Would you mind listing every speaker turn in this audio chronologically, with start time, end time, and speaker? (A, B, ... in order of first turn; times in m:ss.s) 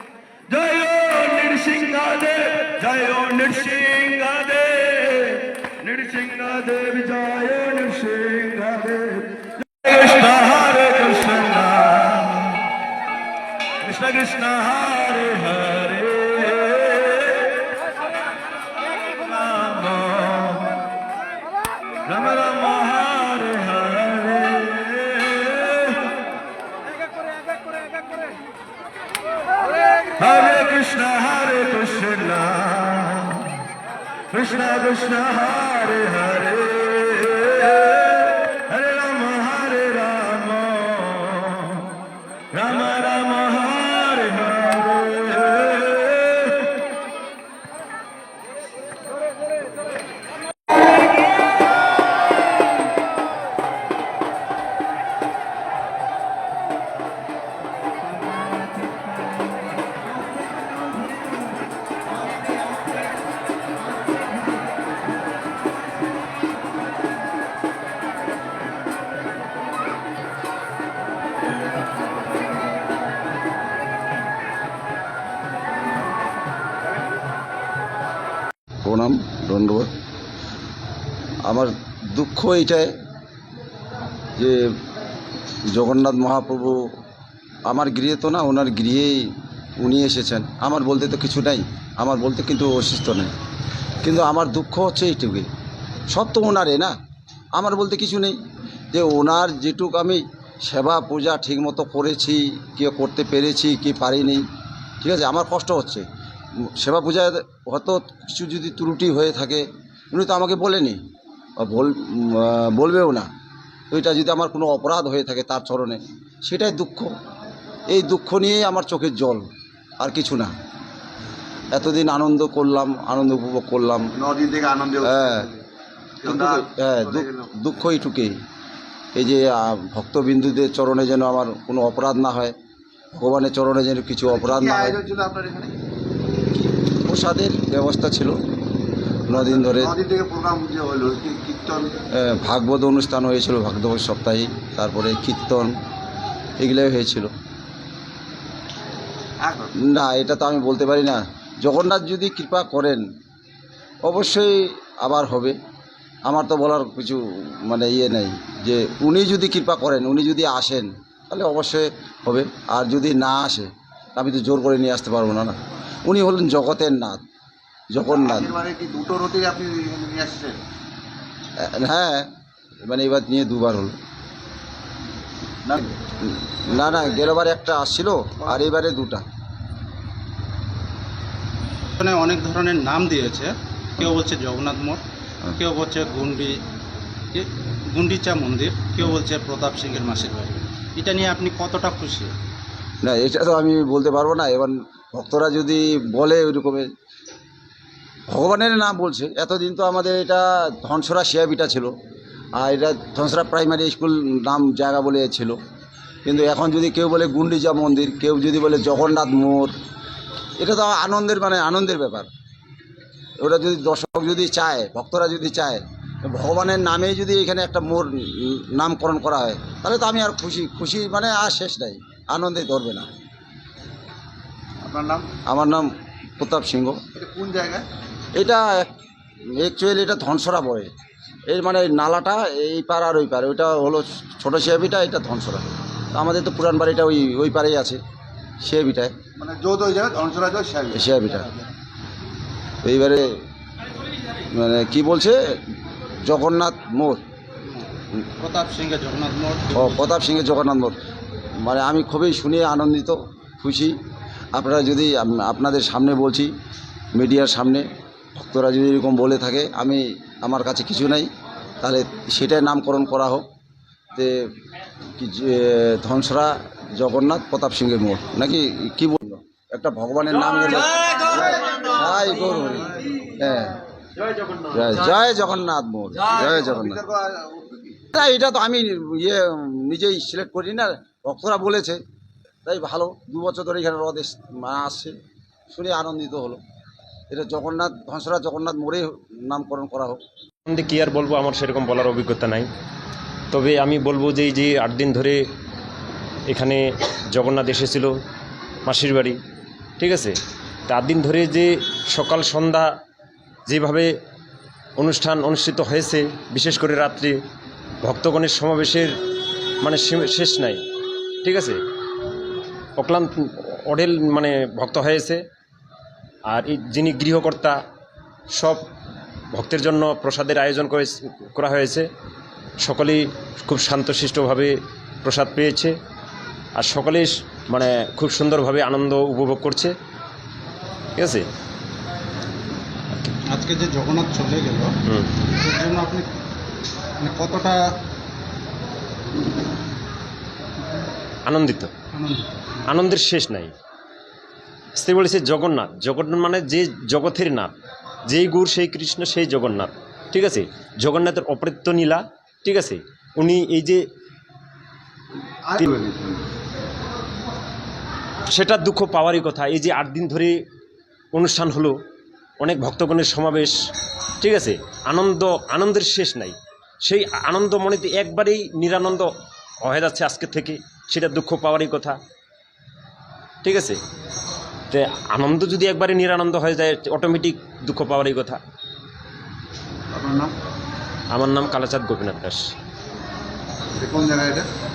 0:00.5-0:12.6 A
0:13.8-0:17.7 A
0:19.3-0:20.8 A
0:22.0-0:26.2 A
0:30.2-0:33.6 A
0:34.3-0:42.0 A
0:42.5-0:46.7 A
1:18.8-1:19.9 B
1:21.4-1:22.9 B
1:25.7-1:26.8 B
1:27.7-1:29.3 B
1:29.8-1:33.3 B
1:34.0-1:35.5 B
1:36.1-1:36.9 B
1:37.5-1:38.4 B
1:38.9-1:44.4 B
1:45.0-1:46.0 B
1:46.7-1:51.0 B
1:51.6-1:53.3 B
1:53.9-1:57.1 B
1:57.9-1:59.4 B
2:00.0-2:00.5 B
2:01.7-2:04.1 B
2:04.2-2:05.6 C
2:05.0-2:05.5 B
2:06.2-2:07.5 C
2:06.2-2:08.4 B
2:09.2-2:12.5 B
2:13.1-2:15.0 B
2:14.2-2:15.7 C
2:16.8-2:18.4 B
2:19.3-2:19.9 B
2:19.3-2:21.9 C
2:22.2-2:25.7 B
2:26.6-2:27.3 B
2:29.4-2:29.7 C
2:29.8-2:33.0 B
2:34.0-2:35.6 B
2:36.2-2:47.2 B
2:47.9-2:48.5 B
2:48.1-2:50.6 C
2:51.6-2:52.3 B
2:52.9-2:54.0 B
2:56.0-2:59.2 B
3:02.0-3:05.0 D
3:05.6-3:06.6 D
3:07.3-3:12.3 D
3:13.0-3:16.9 B
3:18.3-3:21.9 B
3:22.6-3:25.6 B
3:26.2-3:29.7 B
3:30.6-3:32.3 B
3:33.4-3:43.1 B
3:44.8-3:45.3 C
3:45.5-3:45.9 B
3:46.4-3:47.0 B
3:47.1-3:47.8 C
3:48.3-3:48.9 B
3:49.6-3:50.9 B
3:51.5-3:58.0 B
3:58.6-3:59.1 B
3:59.4-4:01.1 C
4:00.9-4:01.5 B
4:02.8-4:03.2 B
4:04.5-4:05.4 B
4:06.2-4:07.2 B
4:07.6-4:10.1 D
4:09.7-4:11.0 B
4:11.6-4:14.0 B
4:14.5-4:16.5 B
4:17.1-4:21.3 B
4:21.8-4:23.4 B
4:25.2-4:33.8 B
4:32.8-4:33.2 C
4:34.6-4:37.0 B
4:36.3-4:38.0 C
4:38.1-4:42.0 B
4:42.6-4:45.1 B
4:45.7-4:46.6 B
4:47.3-4:50.2 B
4:50.7-4:52.7 E
4:53.5-4:55.4 E
4:56.5-4:58.1 E
4:58.8-4:59.4 E
5:00.0-5:00.4 E
5:00.9-5:02.9 E
5:03.7-5:04.1 E
5:05.0-5:07.4 E
5:08.0-5:09.1 E
5:09.8-5:10.8 E
5:11.4-5:11.8 E
5:13.0-5:15.4 E
5:16.5-5:17.8 E
5:18.5-5:18.8 E
5:19.5-5:22.1 E
5:22.8-5:25.9 E
5:26.8-5:29.9 E
5:31.2-5:31.4 E
5:33.5-5:34.9 D
5:35.1-5:35.5 E
5:35.5-5:36.3 D
5:37.2-5:37.8 D
5:41.4-5:41.9 E
5:42.1-5:42.7 D
5:42.9-5:43.7 E
5:45.0-5:47.7 E
5:48.3-5:54.0 E
5:55.6-5:56.4 C
5:58.5-6:00.5 E
6:01.3-6:02.0 E
6:02.6-6:03.7 E
6:04.4-6:09.3 E
6:09.8-6:12.2 E
6:13.6-6:14.0 E
6:14.9-6:18.6 E
6:20.1-6:20.5 C
6:21.3-6:22.7 E
6:24.0-6:24.7 C